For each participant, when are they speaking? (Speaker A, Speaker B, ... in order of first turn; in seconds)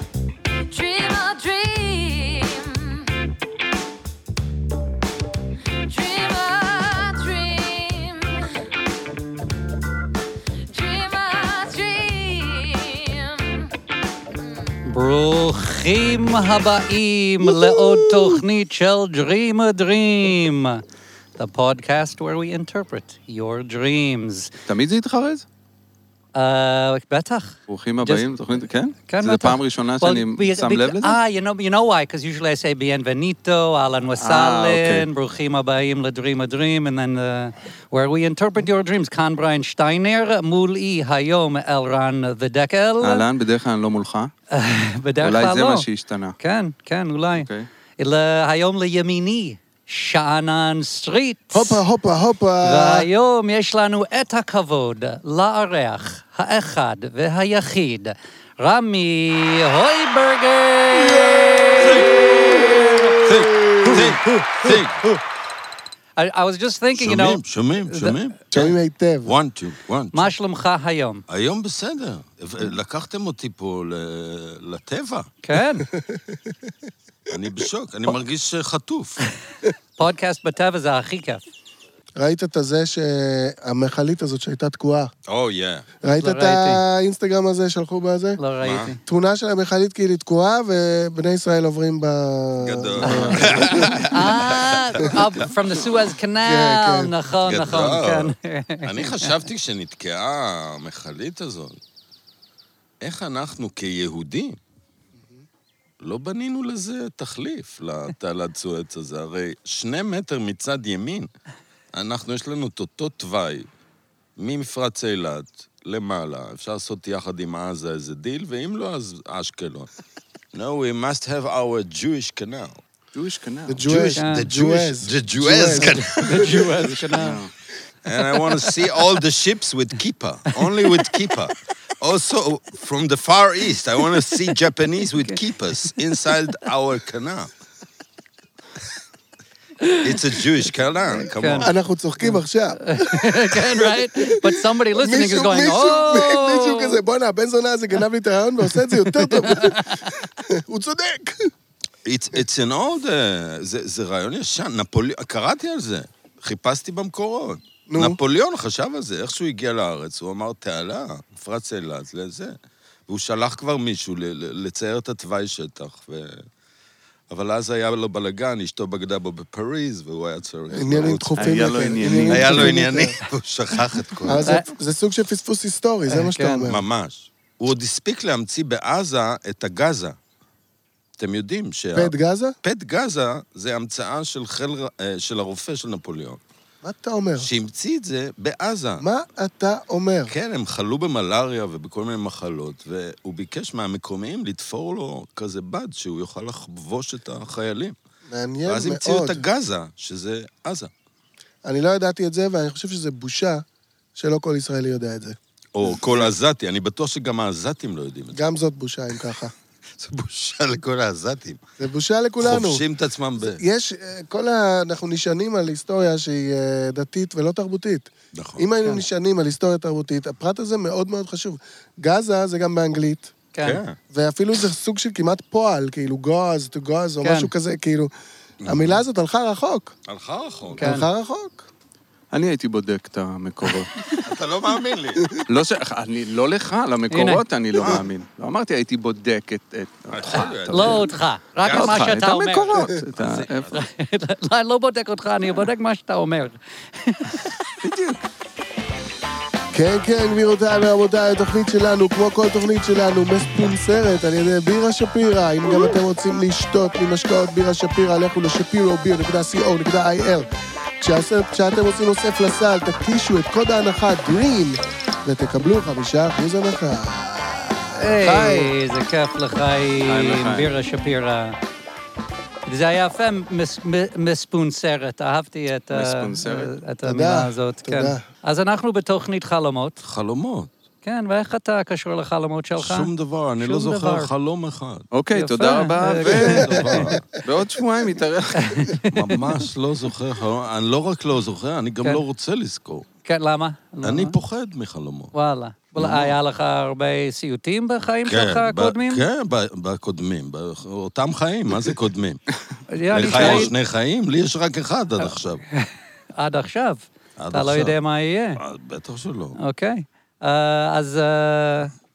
Speaker A: 0.7-3.3, 5.8-8.6, 10.7-13.7, 14.4-14.8
Speaker B: 14.8-20.8, 21.4-24.5, 26.3-28.2, 29.1-43.2, 44.5-45.9, 46.4-47.5, 48.0-51.8, 52.6-63.2, 63.8-64.8, 66.2-68.2, 70.1-71.2, 75.4-75.9, 80.0-81.4, 86.2-86.8, 88.4-89.0, 93.0-99.3, 124.1-124.5, 125.7-127.4, 128.4-128.8, 130.5-131.0, 139.8-140.2, 141.2-141.7, 142.2-147.0, 149.2-150.2, 174.4-174.7, 176.1-176.7, 223.5-223.8, 227.2-227.5, 230.8-231.1, 233.9-234.2, 237.1-237.4, 240.7-243.0, 243.7-247.5, 267.9-271.6, 272.6-280.0, 281.0-284.3, 285.3-287.0, 288.6-289.4, 293.2-294.4, 295.3-299.2, 302.9-303.7, 305.7-308.6, 309.6-311.9
Speaker C: 17.4-18.4, 51.5-53.1, 60.9-64.1, 68.5-69.3, 75.8-76.7, 82.2-85.1, 86.0-88.4, 89.0-94.1, 96.4-97.1, 123.7-126.7, 141.6-151.5, 157.9-158.2, 170.7-173.2, 174.2-176.8, 181.9-182.6, 186.8-187.5, 189.0-190.3, 198.3-199.4, 201.6-203.6, 204.2-205.4, 205.9-206.2, 208.3-209.5, 211.8-212.8, 213.4-223.3, 224.1-228.1, 228.6-229.9, 230.8-231.7, 249.7-260.5, 261.0-268.7, 277.0-278.2, 286.9-287.4
Speaker D: 24.7-25.4, 27.7-31.1, 34.2-35.1, 43.0-44.3, 45.2-46.4, 47.3-47.7, 123.1-123.9, 127.1-127.5, 171.4-172.8, 232.3-233.9, 235.5-241.1, 241.7-243.7, 247.8-248.2, 270.0-270.7, 275.9-276.7, 285.1-289.0, 303.2-303.7
Speaker E: 61.8-62.3, 63.2-65.0, 66.9-70.3, 71.3-75.3, 77.3-79.2, 85.3-85.9, 88.6-88.9, 92.6-95.2, 97.4-101.8, 103.0-104.6, 106.0-111.3, 111.9-113.7, 114.4-119.9, 120.5-122.8, 123.8-127.0, 128.0-137.5, 140.0-141.7, 152.0-162.6, 163.1-166.4, 167.3-174.5, 176.6-180.2, 181.2-186.4, 187.4-189.0, 190.3-197.9, 198.6-200.9, 205.7-208.4, 209.9-211.6, 212.4-213.6, 218.3-218.7, 223.6-224.0, 228.6-229.0, 230.1-230.9, 234.2-235.3, 237.8-238.1, 240.1-241.0, 241.6-242.1, 243.2-243.8, 280.0-280.7, 282.8-285.1, 286.2-287.2, 289.1-293.1, 294.0-295.3, 295.9-296.4, 298.3-302.4, 303.1-305.6, 307.4-307.9, 308.6-309.6